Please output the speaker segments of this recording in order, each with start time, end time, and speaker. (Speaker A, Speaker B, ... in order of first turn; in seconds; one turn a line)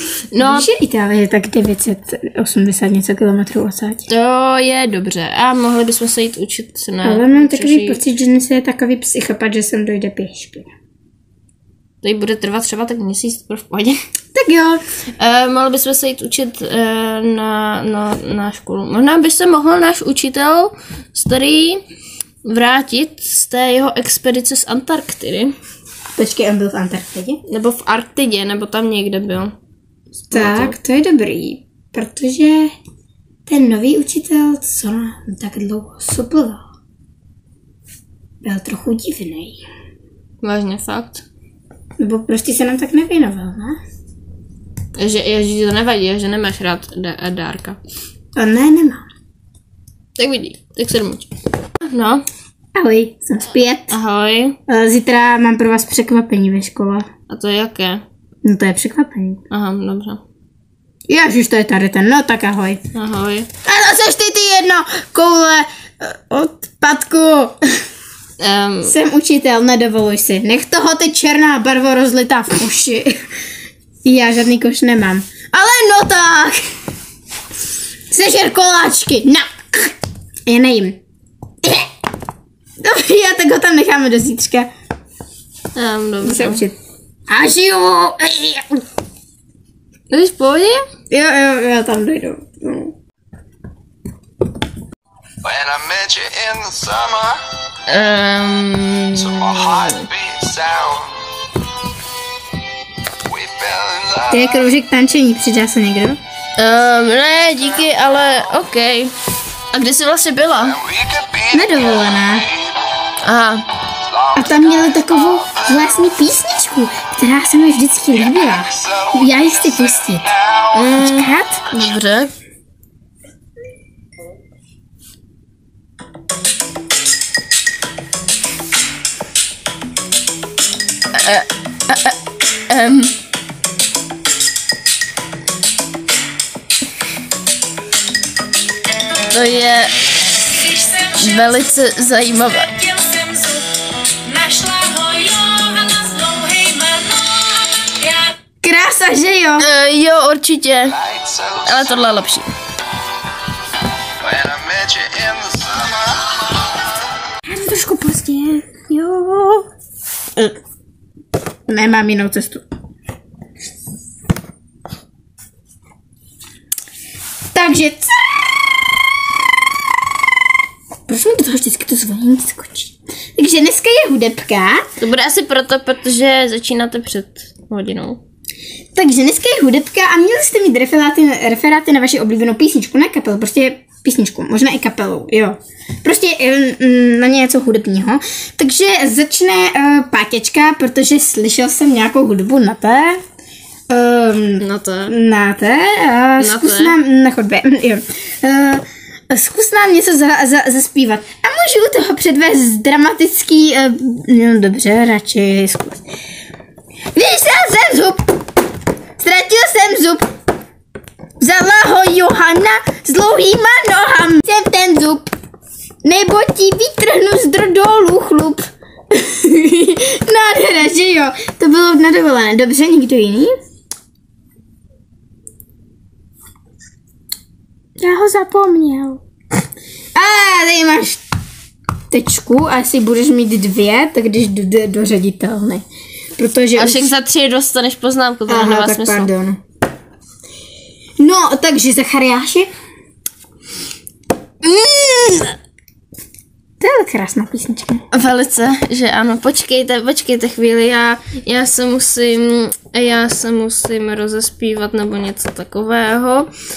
Speaker A: 0.3-0.7
Speaker B: 0.4-4.0
Speaker A: 4.1-8.0
Speaker B: 7.0-10.7
Speaker A: 12.0-13.9
Speaker B: 14.3-14.8
Speaker A: 15.2-21.8
Speaker A: 22.4-25.5
Speaker B: 26.1-27.4
Speaker A: 27.5-29.5
Speaker A: 30.3-30.8
Speaker B: 30.3-32.7
Speaker B: 33.5-36.6
Speaker B: 38.4-39.6
Speaker A: 40.4-41.2
Speaker B: 42.0-43.8
Speaker A: 45.0-47.8
Speaker B: 48.4-49.0
Speaker A: 50.2-51.3
Speaker A: 51.9-52.2
Speaker B: 52.7-53.9
Speaker A: 53.9-54.6
Speaker B: 54.7-57.0
Speaker A: 57.3-58.0
Speaker B: 58.4-59.4
Speaker A: 59.5-60.2
Speaker B: 61.1-62.8
Speaker A: 62.9-63.5
Speaker B: 63.6-67.6
Speaker A: 68.4-68.9
Speaker B: 68.8-73.2
Speaker B: 74.0-76.6
Speaker B: 78.1-79.9
Speaker B: 80.5-81.0
Speaker B: 81.6-81.9
Speaker B: 82.8-84.7
Speaker A: 85.7-86.6
Speaker B: 86.2-86.7
Speaker B: 87.3-88.8
Speaker A: 90.1-90.8
Speaker B: 91.1-92.9
Speaker C: 95.4-97.4
Speaker A: 97.9-100.1
Speaker C: 99.4-101.2
Speaker C: 103.2-104.3
Speaker B: 104.3-106.2
Speaker A: 106.6-109.1
Speaker A: 109.7-110.8
Speaker C: 110.9-111.5
Speaker B: 111.5-112.5
Speaker A: 113.2-113.6
Speaker B: 114.3-120.3
Speaker A: 120.7-122.3
Speaker B: 120.9-121.6
Speaker A: 131.1-132.2
Speaker A: 132.7-133.1
Speaker A: 139.3-139.9
Speaker A: 140.7-143.6
Speaker C: 143.1-143.6
Speaker A: 144.3-148.1
Speaker C: 145.9-147.2
Speaker B: 148.6-149.7
Speaker A: 149.6-152.5
Speaker C: 151.1-151.6
Speaker C: 154.2-156.2
Speaker B: 157.4-159.7
Speaker B: 161.7-162.6
Speaker B: 167.5-168.4
Speaker B: 171.1-174.8
Speaker A: 175.0-178.2
Speaker B: 178.9-193.2
Speaker B: 193.9-206.0
Speaker A: 194.6-195.2
Speaker A: 196.4-197.0
Speaker B: 207.1-208.3
Speaker B: 209.2-210.2
Speaker B: 211.4-215.3
Speaker B: 216.0-223.5
Speaker B: 228.0-229.2
Speaker B: 230.1-231.2
Speaker B: 232.1-235.8
Speaker B: 236.4-237.1
Speaker A: 236.8-239.3
Speaker B: 238.5-239.6
Speaker B: 241.2-242.7
Speaker B: 244.6-245.6
Speaker B: 246.8-248.0
Speaker A: 248.1-256.5